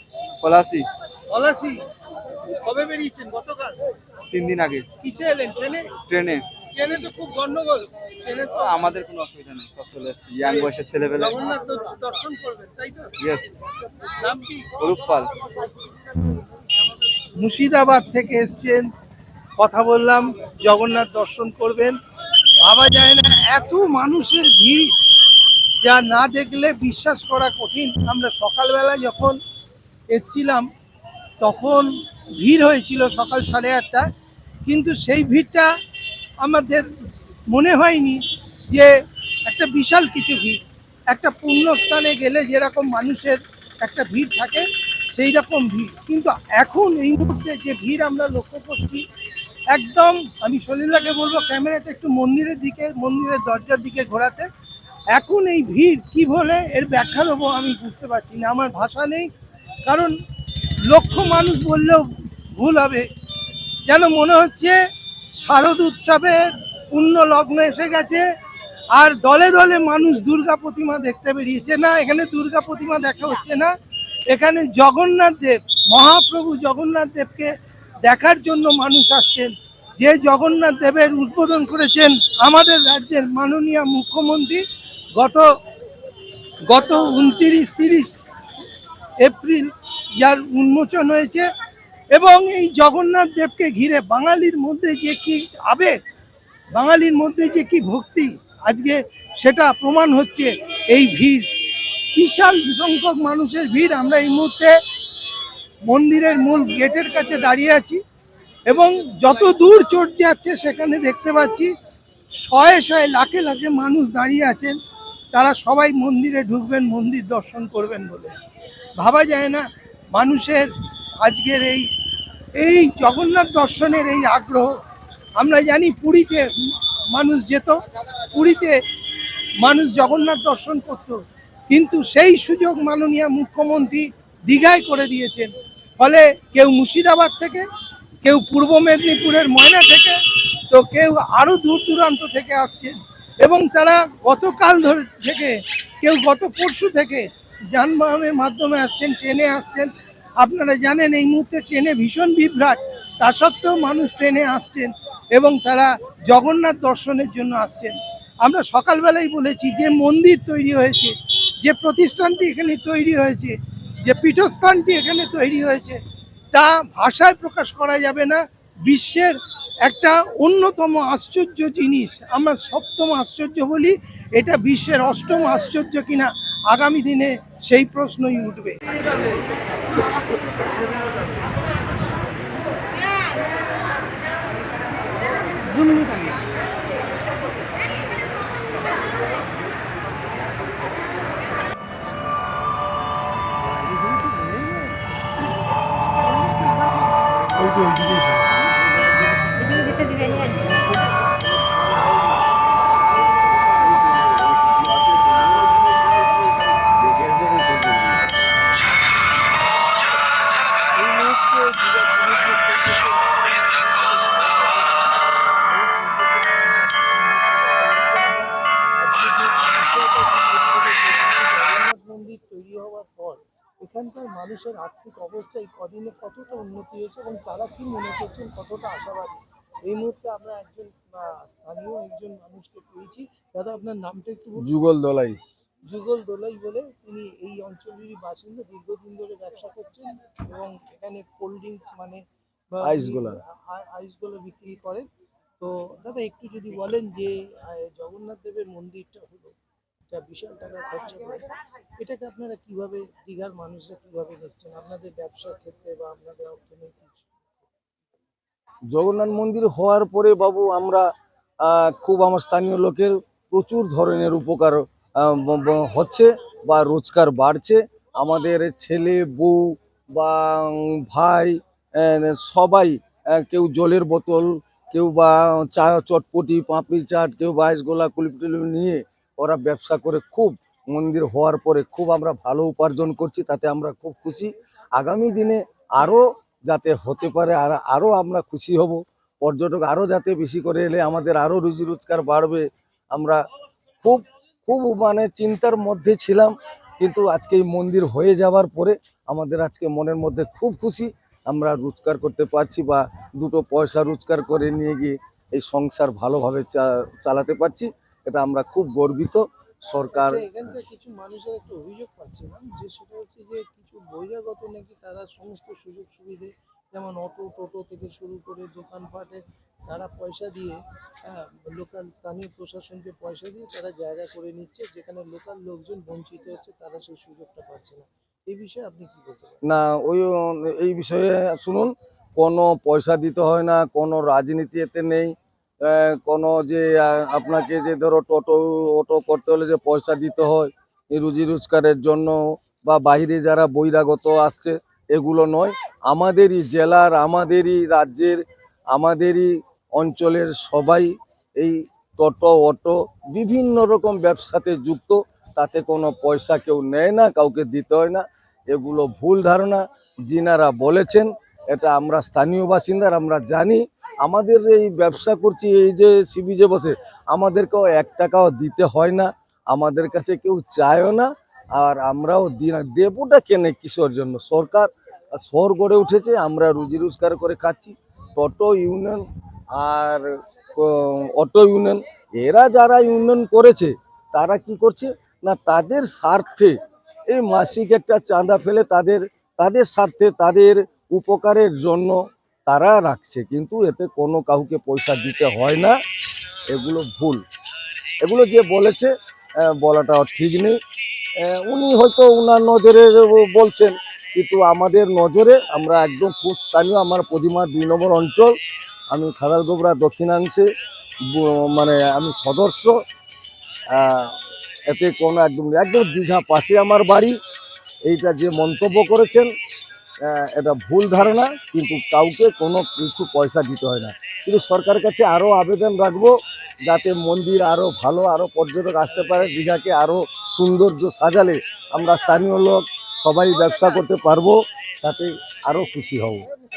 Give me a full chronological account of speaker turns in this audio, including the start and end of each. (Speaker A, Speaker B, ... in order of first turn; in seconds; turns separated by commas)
Speaker A: 0.4-0.9, Speaker B: 1.3-1.9, Speaker B: 2.5-3.8, Speaker A: 4.3-4.9, Speaker B: 5.0-6.0, Speaker A: 6.0-6.5, Speaker B: 6.6-8.8, Speaker A: 8.6-11.4, Speaker B: 10.4-13.2, Speaker A: 13.2-13.6, Speaker B: 14.1-14.8, Speaker A: 14.8-15.3, Speaker B: 17.4-18.9, Speaker B: 19.6-22.0, Speaker B: 22.6-24.9, Speaker B: 25.8-29.4, Speaker B: 30.1-30.7, Speaker B: 31.4-34.0, Speaker B: 34.6-35.7, Speaker B: 36.4-36.9, Speaker B: 37.5-38.9, Speaker B: 39.5-49.0, Speaker B: 49.7-54.5, Speaker B: 55.1-59.3, Speaker B: 59.9-60.1, Speaker B: 60.9-63.0, Speaker B: 63.9-64.8, Speaker B: 65.4-68.2, Speaker B: 68.9-73.7, Speaker B: 74.3-77.5, Speaker B: 78.0-84.6, Speaker B: 85.2-85.4, Speaker B: 86.7-88.2, Speaker B: 89.2-91.5, Speaker B: 92.1-96.0, Speaker B: 96.7-101.5, Speaker B: 102.2-104.8, Speaker B: 105.9-108.0, Speaker B: 108.7-111.7, Speaker B: 112.4-114.8, Speaker B: 115.3-118.3, Speaker B: 119.0-120.7, Speaker B: 121.2-121.9, Speaker B: 122.5-124.7, Speaker B: 125.4-128.8, Speaker B: 129.6-137.6, Speaker B: 138.2-140.2, Speaker B: 140.7-166.0, Speaker B: 166.5-179.1, Speaker B: 185.8-186.2, Speaker B: 194.0-194.9, Speaker B: 197.6-198.4, Speaker B: 199.7-200.5, Speaker B: 210.9-215.0, Speaker B: 215.6-234.7, Speaker C: 234.6-235.4, Speaker B: 235.9-245.1, Speaker C: 242.8-243.4, Speaker B: 245.6-249.5, Speaker B: 250.1-257.5, Speaker C: 258.9-261.1, Speaker C: 261.6-293.4, Speaker C: 294.0-310.7, Speaker B: 310.1-329.6, Speaker C: 329.6-379.2, Speaker C: 379.8-386.8, Speaker C: 387.3-396.0, Speaker C: 396.7-397.4, Speaker C: 398.2-400.8, Speaker C: 401.4-408.6, Speaker C: 409.1-410.7, Speaker C: 411.3-413.0, Speaker C: 413.9-417.4, Speaker C: 418.1-419.5, Speaker C: 420.2-426.3, Speaker C: 426.9-436.4